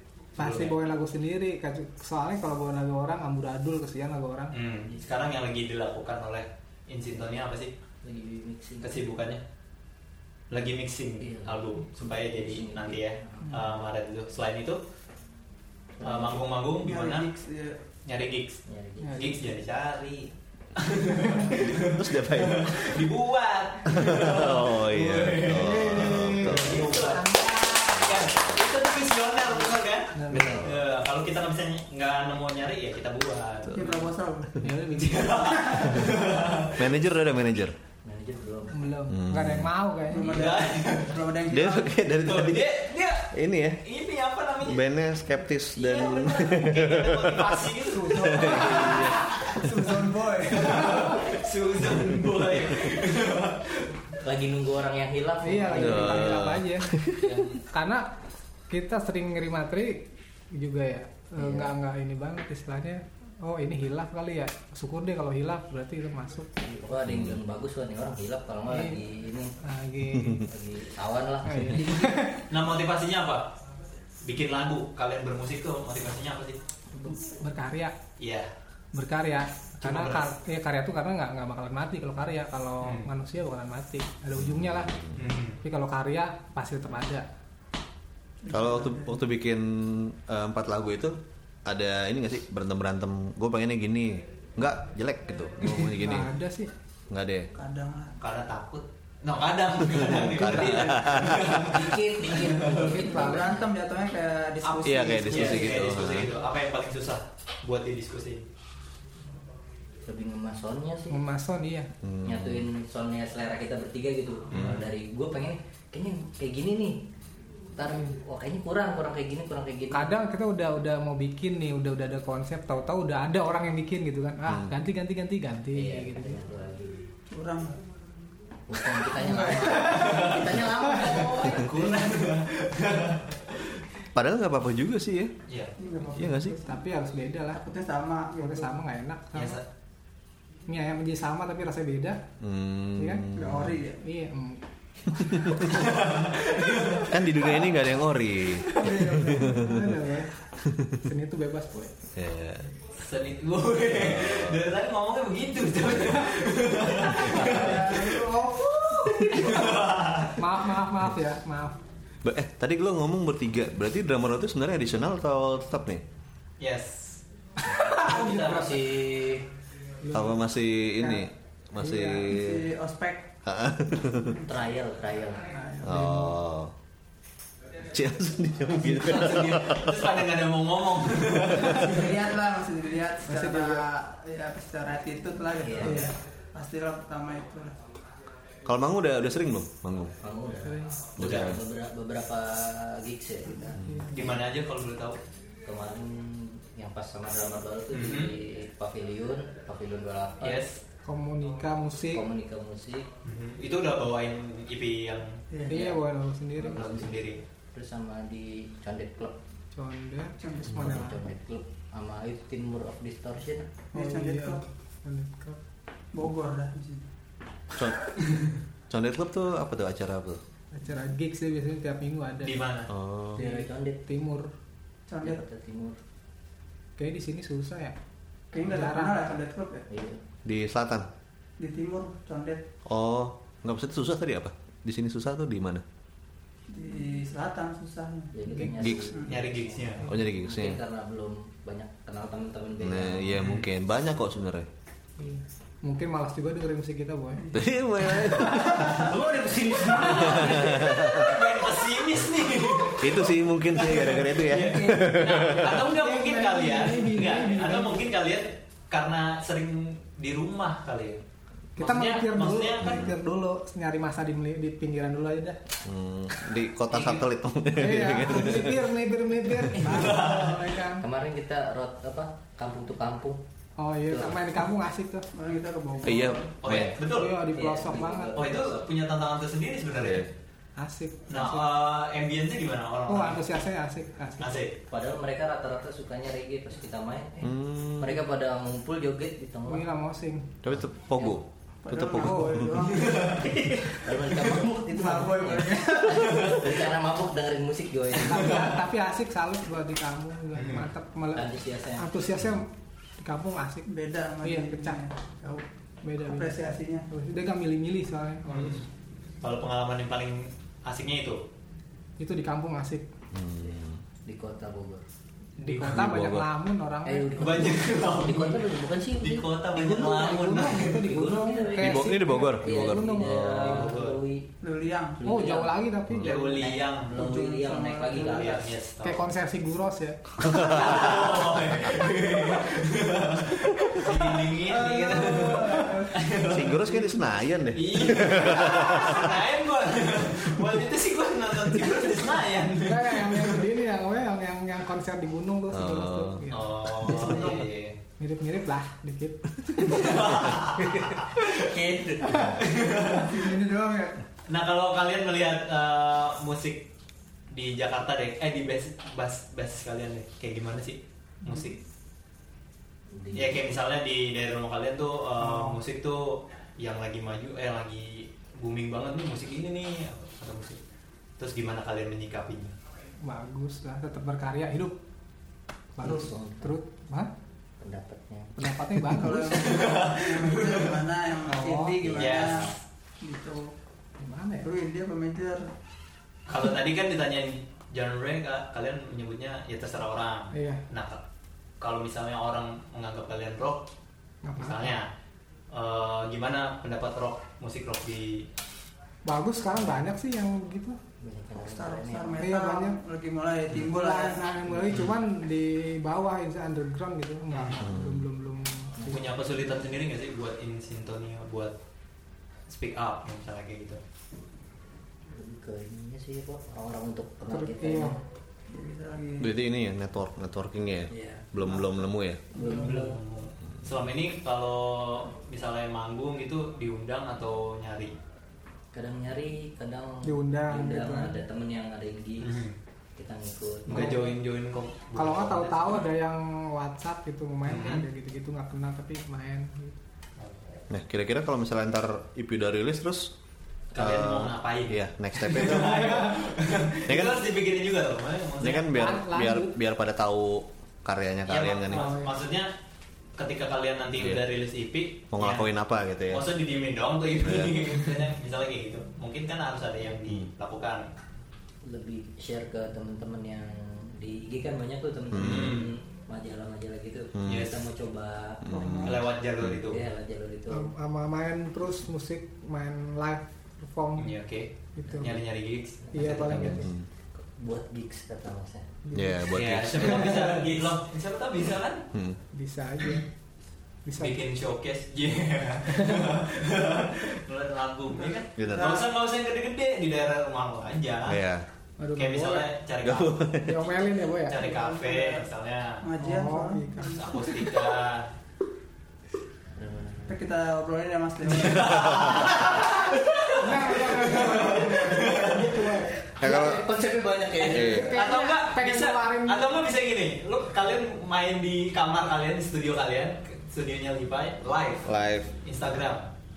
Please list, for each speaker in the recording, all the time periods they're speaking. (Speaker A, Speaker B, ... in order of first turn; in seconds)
Speaker A: 0.4-0.8, 4.5-7.7, 8.8-9.4, 10.5-14.8, 16.0-17.3, 18.1-18.6, 19.1-34.0, 34.9-36.9, 40.1-41.1, 42.1-44.9, 45.8-49.6, 50.5-53.9, 57.2-57.6, 72.5-73.5, 74.2-76.6, 78.2-78.5, 79.8-80.3, 82.8-83.1, 85.2-85.6, 98.2-102.9, 105.3-108.5, 129.9-130.5, 131.2-133.7, 135.5-135.8, 139.3-139.7, 145.7-147.5, 153.0-158.2, 159.1-160.5, 166.6-167.2, 167.9-168.8, 178.9-182.1, 191.2-191.6, 194.1-195.2, 197.9-198.3, 200.4-200.8, 203.2-205.4, 206.7-207.4, 222.4-222.9, 239.3-240.1, 243.4-243.7, 249.1-261.2, 261.8-263.1, 266.9-267.2, 269.8-270.7, 276.6-277.4, 278.4-280.3, 281.3-283.4, 284.4-284.8, 292.9-293.6, 300.6-300.9, 308.5-308.9, 309.4-311.4, 317.4-321.1, 323.4-324.2, 326.1-327.2, 328.1-329.3, 330.5-336.9, 337.7-343.7, 346.5-348.0, 349.8-351.7, 352.3-353.4, 354.5-356.9, 357.5-361.8, 363.3-370.8, 371.4-372.8, 379.5-380.9, 382.1-382.7, 386.5-391.2, 391.8-393.9, 394.6-395.1, 395.7-398.4, 409.1-411.7, 412.7-414.0, 422.6-428.1, 432.4-432.8, 433.9-436.1, 437.7-438.1, 440.4-440.8, 443.9-448.9, 451.5-452.7, 453.4-455.7, 456.3-461.1, 465.4-465.9, 467.5-467.8, 469.0-470.0, 474.2-476.8, 479.5-482.1, 484.2-491.4, 492.1-496.1, 497.0-498.3, 501.5-506.0, 507.6-515.1, 515.6-516.3
Speaker B: 0.4-4.5, 19.0-19.4, 21.2-21.6, 25.5-28.1, 30.1-30.6, 34.6-36.1, 38.7-40.5, 48.0-49.0, 50.9-51.3, 55.4-57.0, 57.7-58.1, 58.7-66.5, 68.7-69.0, 69.6-70.5, 71.5-72.4, 77.1-78.0, 78.9-85.0, 85.6-87.3, 95.8-96.7, 102.7-103.5, 104.9-105.5, 111.1-111.9, 119.9-126.4, 129.9-131.4, 136.6-137.6, 138.4-139.6, 140.7-142.2, 143.0-143.3, 144.0-145.5, 149.2-150.3, 151.0-151.9, 157.1-157.7, 158.6-159.7, 160.4-161.8, 167.6-168.8, 170.0-170.4, 171.0-171.2, 171.8-172.4, 175.5-176.4, 183.3-183.8, 185.8-186.2, 190.6-191.0, 193.8-194.1, 201.1-202.2, 205.7-206.9, 209.8-211.3, 213.9-215.6, 220.7-222.6, 223.3-224.5, 227.0-228.0, 228.6-229.2, 238.5-239.0, 245.2-247.6, 248.3-249.0, 249.8-251.2, 255.8-258.0, 261.8-265.6, 267.8-271.1, 273.8-275.3, 277.0-278.4, 280.8-281.7, 283.1-284.6, 289.7-290.5, 292.2-292.6, 298.2-303.9, 304.4-305.0, 306.0-306.6, 307.1-308.9, 312.2-313.1, 315.6-317.7, 319.7-324.0, 325.2-326.6, 329.0-331.1, 333.8-335.8, 342.9-347.6, 348.2-350.5, 373.2-375.0, 376.0-377.3, 378.6-379.7, 381.5-382.0, 384.2-384.7, 390.5-390.8, 394.4-394.9, 399.3-401.0, 402.4-403.0, 403.8-409.3, 417.5-418.2, 430.2-431.4, 433.9-434.4, 435.2-440.0, 445.8-446.3, 448.9-449.7, 451.9-452.3, 470.7-474.3, 475.0-475.4, 476.1-476.9, 479.1-480.9, 482.5-483.3, 484.1-484.4, 485.9-486.3, 492.0-492.7, 493.6-494.7, 496.2-497.1, 502.8-506.1, 507.8-509.7
Speaker C: 8.0-9.0, 11.2-13.5, 16.0-16.4, 18.7-19.3, 38.0-38.8, 54.2-56.4, 61.4-61.7, 66.6-69.5, 70.4-72.1, 101.4-103.7, 110.1-111.2, 112.2-117.1, 117.8-120.1, 125.7-127.1, 128.7-132.0, 168.0-169.5, 174.4-175.5, 185.6-186.1, 190.2-194.4, 195.7-200.7, 202.1-203.1, 205.7-206.0, 206.6-207.2, 207.7-209.4, 210.7-213.7, 223.3-224.1, 225.2-226.0, 229.9-230.2, 238.3-243.4, 271.0-273.4, 274.1-274.4, 277.5-278.9, 284.9-289.9, 293.8-298.7, 301.3-302.1, 314.2-315.1, 317.1-319.5, 320.7-324.5, 325.2-328.7, 350.8-352.6, 363.1-363.6, 376.0-376.8, 377.8-378.6, 382.0-382.7, 399.8-400.1, 401.2-402.5, 415.3-418.2, 421.1-421.5, 422.6-423.2, 428.9-432.6, 433.2-434.2, 461.9-468.9, 469.8-470.9, 475.1-475.4, 476.1-478.9, 499.8-500.4, 506.4-508.1
Speaker D: 16.8-17.8, 33.7-34.6, 40.1-42.0, 49.5-51.2, 88.4-89.2, 97.5-98.2, 103.0-105.7, 127.3-127.8, 129.2-130.3, 135.8-136.8, 137.5-138.7, 143.3-144.0, 148.7-149.7, 157.3-159.0, 172.3-173.3, 181.7-187.8, 205.5-205.8, 210.4-210.8, 213.9-214.6, 216.1-217.1, 225.1-225.4, 228.5-229.8, 231.6-232.6, 236.7-238.3, 239.1-239.4, 247.4-248.3, 275.3-276.6, 291.8-293.8, 294.4-296.7, 303.9-305.6, 306.2-307.1, 324.6-325.2, 327.1-328.5, 334.7-336.2, 347.1-347.6, 353.0-354.2, 379.1-383.7, 384.6-385.7, 401.6-404.6, 418.7-419.5, 468.7-469.1, 488.7-489.1, 494.6-495.5, 496.0-497.4, 500.3-502.3
Speaker E: 21.6-22.9, 23.9-26.9, 36.8-37.8, 39.1-39.7, 41.5-42.8, 43.3-43.8, 44.6-49.2, 55.8-57.3, 67.1-67.4, 70.1-70.4, 84.4-85.2, 88.5-96.3, 97.1-97.5, 99.8-101.8, 104.8-106.3, 112.0-112.7, 134.2-135.3, 136.1-136.6, 142.4-143.8, 145.3-145.6, 147.1-150.0, 152.2-152.7, 153.9-154.7, 162.2-166.0, 170.1-172.7, 173.4-174.4, 175.8-176.7, 177.8-180.1, 188.7-190.2, 191.2-191.6, 193.8-194.1, 217.7-218.1, 218.9-220.4, 222.9-223.4, 230.4-231.1, 232.9-235.8, 238.8-239.1, 240.1-240.8, 242.8-244.7, 247.5-249.1, 250.0-251.4, 253.0-255.9, 262.8-263.1, 265.9-268.9, 276.0-277.0, 280.0-280.3, 287.4-288.2, 290.6-292.8, 313.3-314.0, 315.7-316.5, 321.8-323.6, 330.4-331.3, 336.5-339.4, 345.7-346.5, 407.8-408.3, 419.4-422.5, 440.9-443.3, 444.0-446.4, 447.1-447.4, 448.6-452.1, 455.3-456.5, 457.4-457.9, 465.3-465.8, 467.4-467.7, 468.6-469.8, 476.6-477.1, 479.1-480.5, 482.1-482.4, 488.6-489.0, 491.3-491.6, 493.0-493.9, 501.9-502.5, 506.4-506.9, 507.6-508.1, 515.0-515.5